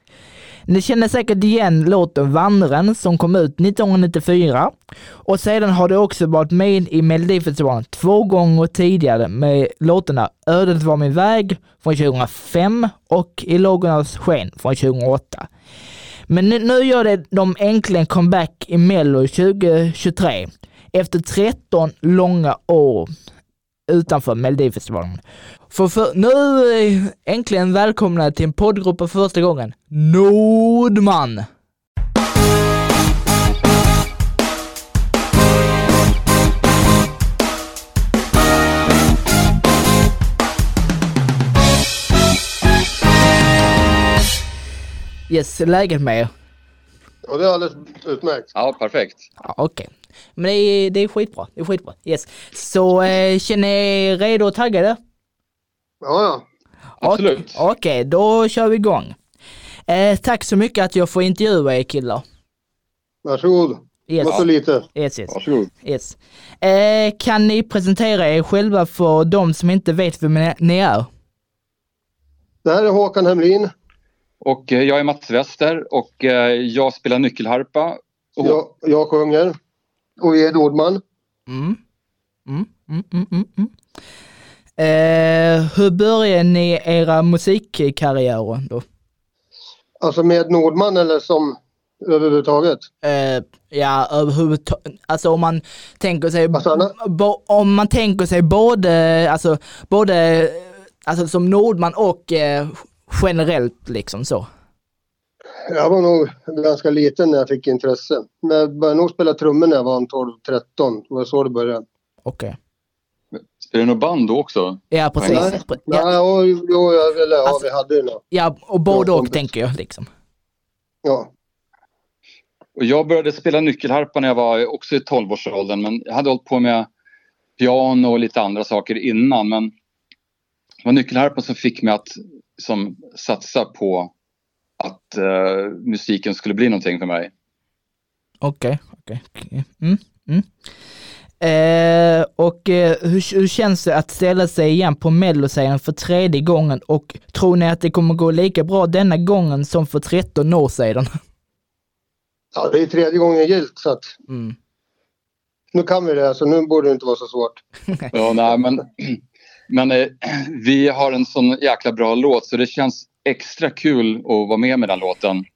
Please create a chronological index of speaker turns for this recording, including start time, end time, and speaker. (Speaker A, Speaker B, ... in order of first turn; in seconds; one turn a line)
Speaker A: 0.7-4.7
Speaker A: 5.2-15.5
Speaker A: 16.3-23.1
Speaker A: 23.9-31.5
Speaker A: 45.3-46.3
Speaker B: 47.3-48.5
Speaker C: 48.5-49.3
Speaker A: 49.4-55.0
Speaker B: 56.0-56.5
Speaker A: 57.0-59.2
Speaker C: 57.0-57.6
Speaker A: 59.9-62.2
Speaker B: 63.2-64.9
Speaker A: 64.1-71.1
Speaker C: 65.3-65.7
Speaker B: 72.6-73.7
Speaker C: 74.4-78.6
Speaker B: 78.4-79.5
Speaker B: 80.2-81.0
Speaker A: 81.5-81.8
Speaker A: 82.5-83.7
Speaker A: 84.8-88.8
Speaker B: 90.0-92.9
Speaker A: 93.0-104.5
Speaker B: 96.5-96.9
Speaker B: 105.7-111.8
Speaker A: 112.2-112.5
Speaker C: 113.3-115.6
Speaker A: 114.9-116.1
Speaker B: 115.3-118.2
Speaker A: 118.3-120.1
Speaker B: 118.9-119.4
Speaker B: 121.0-121.3
Speaker C: 122.8-126.9
Speaker C: 127.6-129.7
Speaker C: 130.8-134.1
Speaker C: 134.8-137.3
Speaker A: 138.4-140.5
Speaker A: 141.4-151.1
Speaker B: 152.5-154.1
Speaker A: 154.3-154.6
Speaker B: 155.7-157.6
Speaker C: 158.1-165.4